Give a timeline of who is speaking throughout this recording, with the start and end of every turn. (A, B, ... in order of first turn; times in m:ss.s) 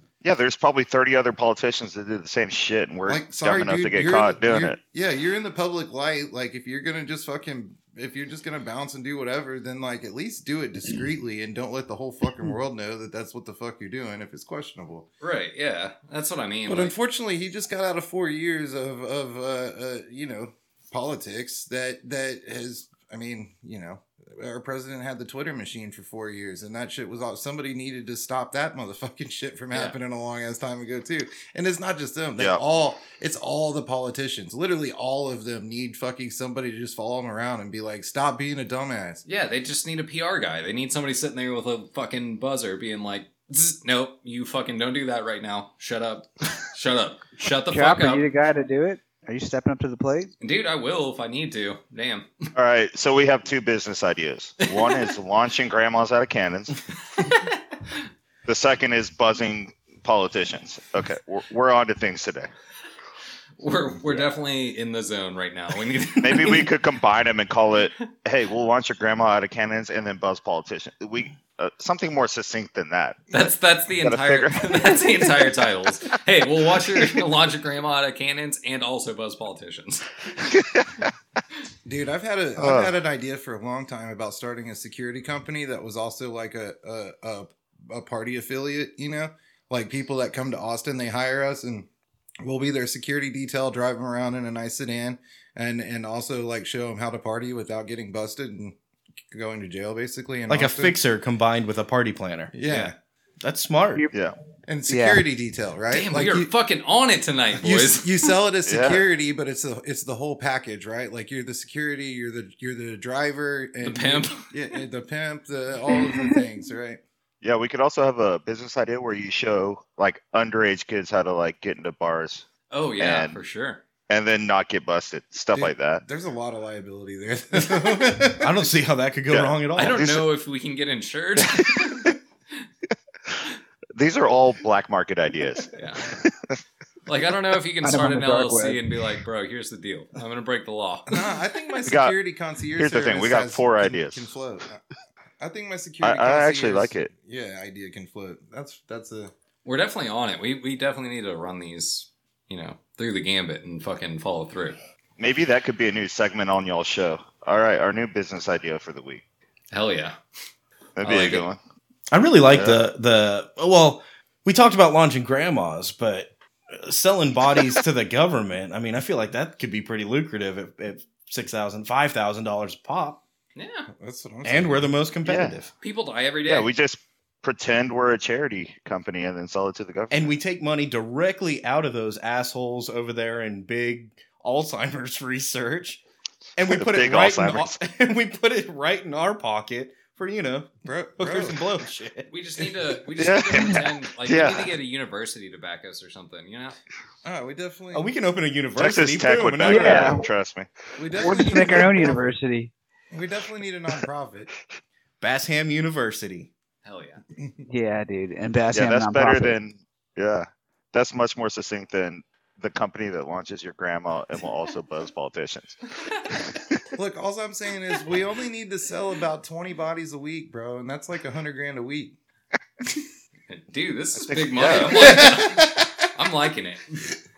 0:00.2-0:04.8 A
0:03.0-0:15.1 B
0:15.2-0:16.9 C
0:16.6-0:39.2 B
0:29.7-0:30.0 C
0:39.2-0:48.2 C
0:47.7-0:50.3 D
0:50.4-0:52.5 C
0:52.5-0:56.8 A
0:54.6-0:55.1 C
0:57.1-0:58.0 C
0:58.4-1:02.5 A
1:03.6-1:06.7 C
1:06.2-1:13.3 A
1:13.3-1:20.1 C
1:14.0-1:14.9 A
1:20.5-1:21.1 A
1:21.8-1:31.9 B
1:22.6-1:22.9 A
1:32.4-1:38.8 B
1:39.3-1:41.0 B
1:40.5-1:44.0 E
1:42.5-1:42.9 B
1:44.7-1:46.5 B
1:44.9-1:45.2 D
1:45.9-1:48.3 C
1:47.6-1:57.0 B
1:48.6-1:49.0 A
1:53.8-1:54.5 C
1:57.4-2:02.5 A
2:02.7-2:03.8 C
2:03.0-2:03.4 A
2:04.1-2:06.0 A
2:05.5-2:08.5 B
2:08.3-2:10.1 E
2:09.3-2:10.2 A
2:09.8-2:12.1 C
2:13.9-2:16.5 A
2:15.7-2:16.2 C
2:17.1-2:21.2 C
2:17.8-2:18.8 D
2:21.1-2:24.8 B
2:21.8-2:22.1 A
2:22.8-2:24.3 A
2:25.4-2:29.3 B
2:26.0-2:27.1 A
2:29.6-2:34.8 C
2:35.2-2:39.2 A
2:39.7-2:40.2 C
2:41.0-2:41.6 A
2:41.0-2:41.4 C
2:42.1-2:53.2 E
2:42.4-2:42.8 A
2:53.6-2:53.9 C
2:53.9-2:54.9 B
2:54.4-2:55.7 E
2:55.2-2:55.6 A
2:55.8-2:56.7 C
2:56.4-3:00.3 A
3:00.1-3:06.0 E
3:06.6-3:12.3 E
3:06.7-3:07.8 A
3:10.8-3:11.6 B
3:12.3-3:16.8 C
3:13.2-3:14.7 A
3:17.2-3:18.1 B
3:17.9-3:20.2 E
3:18.8-3:20.7 A
3:19.6-3:20.2 D
3:21.0-3:22.3 B
3:21.2-3:22.7 D
3:23.1-3:24.5 B
3:25.2-3:26.5 E
3:26.8-3:27.2 C
3:27.4-3:27.7 B
3:27.7-3:29.6 D
3:28.7-3:36.6 A
3:37.0-3:42.2 B
3:43.5-3:47.0 C
3:44.3-3:45.3 A
3:44.9-3:46.1 B